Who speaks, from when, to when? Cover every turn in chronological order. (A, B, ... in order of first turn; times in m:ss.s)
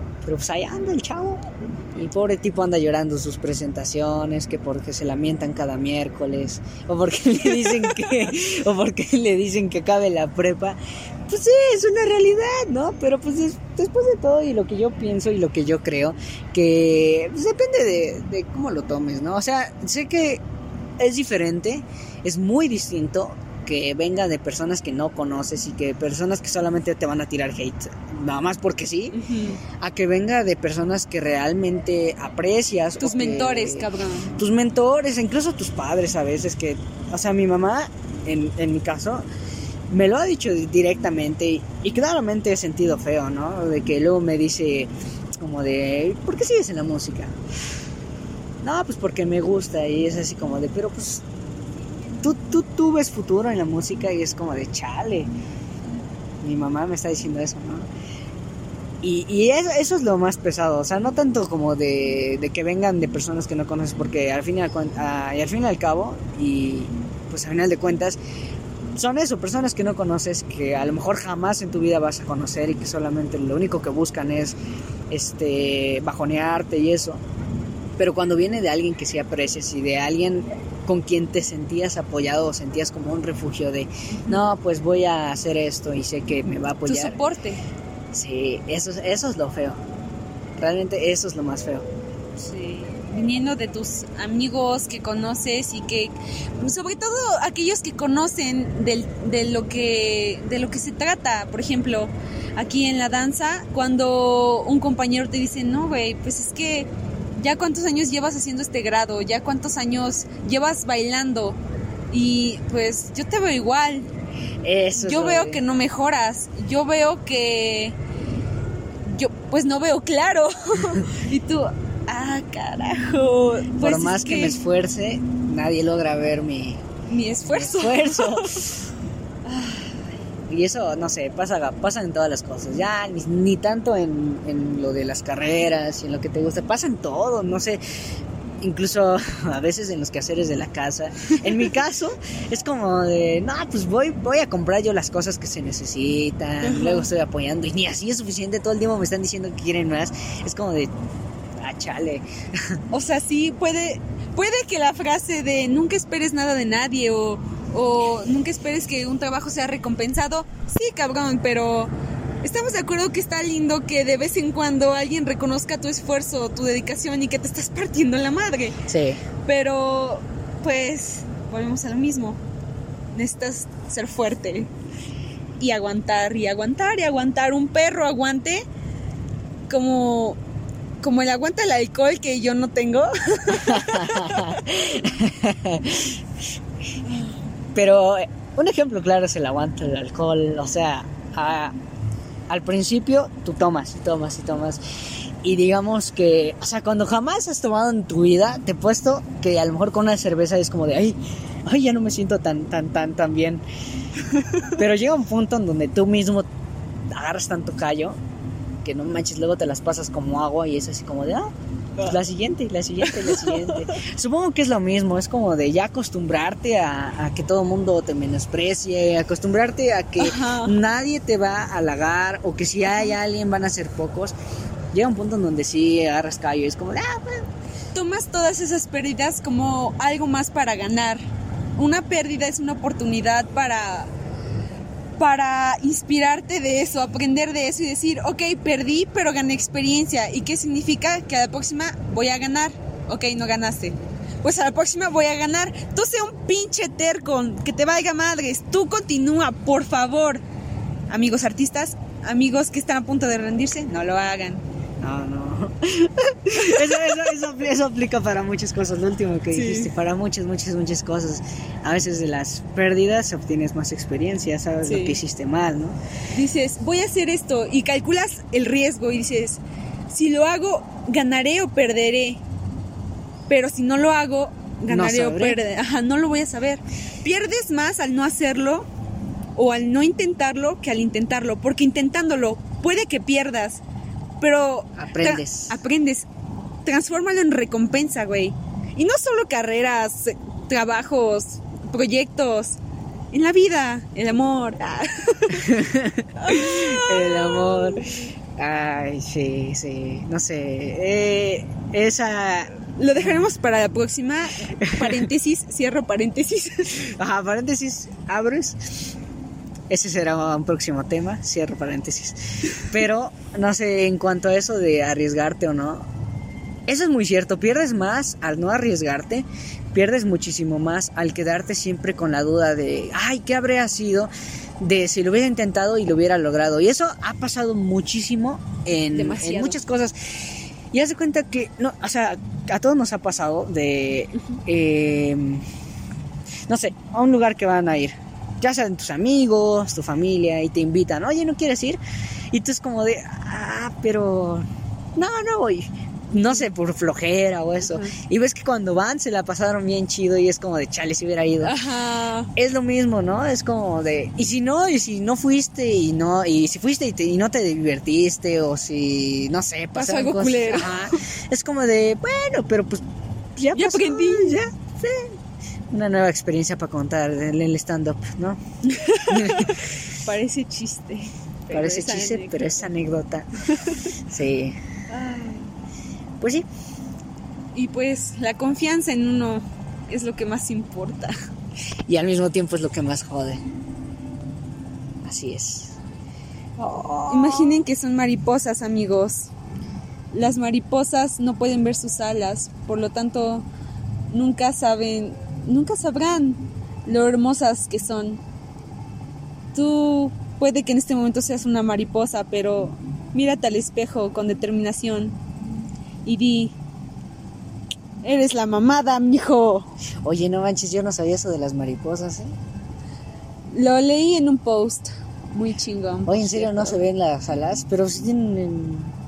0:00.2-0:20.4 A
0:21.0-0:29.2 A
0:29.1-0:29.6 B
0:29.8-0:39.2 A
0:33.0-0:34.3 B
0:39.9-0:47.4 A
0:48.6-0:51.2 A
0:52.2-0:55.3 A
0:56.4-0:57.9 A
0:59.0-1:08.2 A
1:09.0-1:14.6 A
1:15.1-1:17.2 A
1:18.0-1:27.2 A
1:24.2-1:24.5 B
1:26.9-1:27.6 B
1:28.1-1:29.8 A
1:30.6-1:31.9 A
1:32.4-1:51.6 B
1:52.1-1:54.1 B
1:54.6-1:55.6 A
1:55.0-1:58.0 B
1:59.0-2:04.6 B
2:03.8-2:06.8 A
2:07.1-2:08.7 B
2:07.4-2:08.6 A
2:09.5-2:09.9 B
2:10.5-2:17.8 A
2:18.6-2:30.9 A
2:26.6-2:27.0 B
2:31.6-2:32.8 A
2:32.9-2:41.9 B
2:42.4-2:48.8 B
2:48.9-2:49.2 A
2:49.4-2:52.4 B
2:53.2-2:54.7 B
2:55.6-2:58.7 B
2:59.7-3:00.4 B
3:01.0-3:04.5 B
3:03.5-3:06.2 A
3:07.7-3:11.8 A
3:12.5-3:14.8 A
3:15.4-3:23.6 A
3:24.7-3:26.5 A
3:27.1-3:28.2 A
3:28.8-3:44.4 A
3:33.2-3:33.8 B
3:40.2-3:40.8 B
3:44.9-3:47.5 A
3:47.9-3:51.2 B
3:51.8-3:54.1 B
3:55.2-4:10.4 B
4:11.1-4:14.6 B
4:15.0-4:26.0 A
4:19.5-4:19.9 B
4:24.8-4:25.2 B
4:26.3-4:32.4 B
4:33.5-4:38.9 B
4:34.9-4:35.6 A
4:39.6-4:43.8 B
4:44.4-4:46.3 B
4:45.0-4:45.8 A
4:46.8-4:52.8 B
4:53.3-4:55.8 B
4:55.6-5:03.4 A
4:56.4-4:58.0 B
5:03.0-5:07.0 B
5:04.8-5:05.3 A
5:07.0-5:09.1 A
5:09.9-5:16.1 A
5:16.9-5:35.7 A
5:29.1-5:29.8 B
5:36.7-5:42.0 A
5:42.5-5:51.8 A
5:47.8-5:48.1 B
5:51.6-5:52.5 B
5:52.6-6:05.4 A
5:59.9-6:01.2 B
6:03.7-6:04.6 B
6:05.9-6:08.6 A
6:08.9-6:12.8 B
6:09.3-6:09.9 A
6:11.7-6:13.5 A
6:13.8-6:14.1 B
6:14.3-6:14.8 A
6:15.1-6:15.7 B
6:16.4-6:16.7 A
6:17.8-6:21.3 B
6:22.1-6:23.6 A
6:25.2-6:26.0 A
6:26.8-6:27.8 A
6:27.3-6:29.5 B
6:30.3-6:33.6 B
6:34.3-6:38.4 B
6:39.7-6:45.4 B
6:46.2-6:46.8 B
6:48.2-6:49.9 B
6:50.2-6:52.6 A
6:53.7-6:57.0 B
6:56.3-6:59.2 A